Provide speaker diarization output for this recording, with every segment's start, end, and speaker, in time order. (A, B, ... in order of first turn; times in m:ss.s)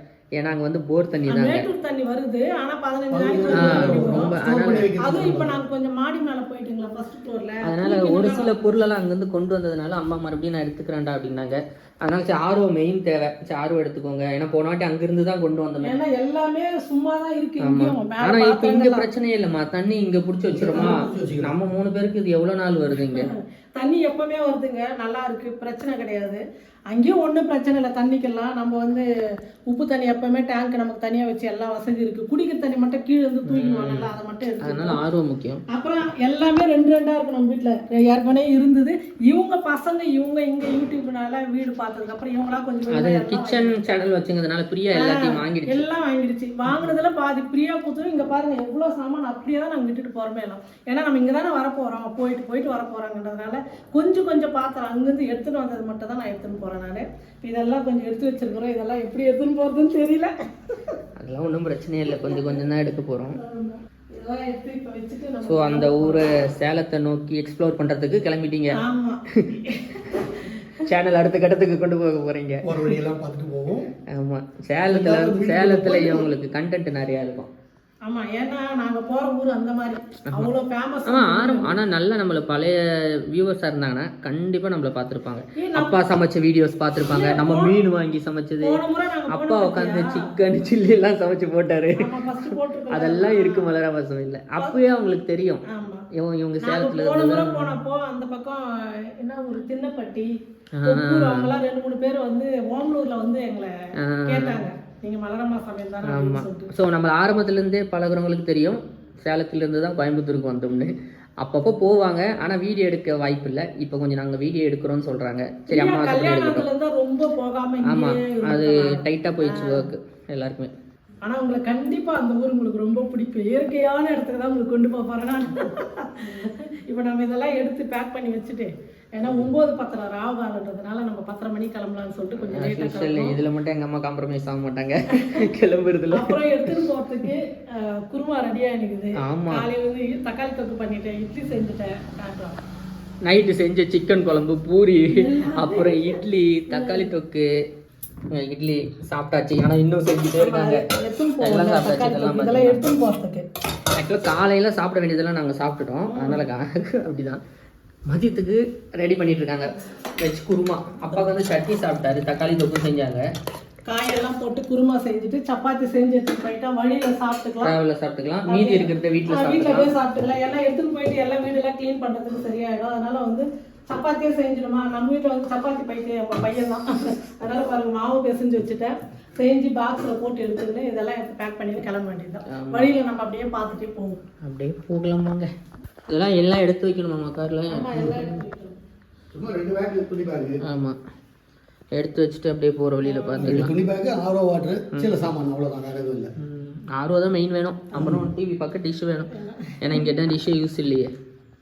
0:00.4-0:01.7 A
0:01.3-0:04.4 B
0:03.1-0:05.6 C
0:03.5-0:04.9 A
0:05.0-0:08.6 B
0:07.6-0:16.0 A
0:15.9-0:19.1 B
0:17.6-0:23.3 A
0:20.5-0:21.6 C
0:20.7-0:21.2 B
0:23.1-0:26.4 B
0:26.9-0:29.0 B
0:29.7-0:35.0 B
0:33.5-0:34.1 A
0:34.6-0:35.6 A
0:35.7-0:43.8 B
0:42.9-0:45.8 A
0:44.9-1:00.3 B
1:01.2-1:03.4 A
1:02.1-1:02.6 B
1:03.4-1:06.2 B
1:05.4-1:08.8 A
1:08.8-1:10.7 B
1:10.9-1:12.6 A
1:12.6-1:13.9 C
1:14.1-1:17.5 A
1:14.9-1:16.3 C
1:18.1-1:21.8 B
1:21.1-1:37.8 A
1:25.6-1:26.0 B
1:27.1-1:27.8 B
1:28.6-1:30.2 B
1:32.0-1:33.7 B
1:35.7-1:36.1 B
1:36.6-1:38.6 B
1:39.2-1:40.3 B
1:40.8-1:41.5 A
1:40.8-1:43.7 B
1:44.0-1:44.6 A
1:44.3-1:46.7 B
1:46.0-1:56.7 A
1:55.7-1:59.9 B
1:57.9-2:00.7 A
2:01.2-2:13.4 B
2:12.4-2:16.8 A
2:15.1-2:15.4 B
2:16.1-2:22.6 B
2:19.2-2:19.6 A
2:23.2-2:27.5 A
2:25.1-2:27.1 B
2:28.3-2:30.8 A
2:30.4-2:33.4 B
2:31.4-2:32.9 A
2:34.0-2:37.4 A
2:36.1-2:36.4 B
2:38.1-2:43.2 A
2:43.9-2:47.8 B
2:47.6-2:49.9 A
2:48.5-2:56.9 B
2:57.4-3:04.2 B
3:02.5-3:02.9 A
3:04.4-3:05.5 A
3:06.1-3:08.3 A
3:07.7-3:08.8 B
3:07.9-3:08.2 C
3:09.3-3:10.6 C
3:10.6-3:11.0 A
3:11.9-3:13.7 A
3:13.0-3:13.6 B
3:13.4-3:16.3 C
3:16.4-3:21.1 A
3:18.0-3:18.3 C
3:19.3-3:20.1 B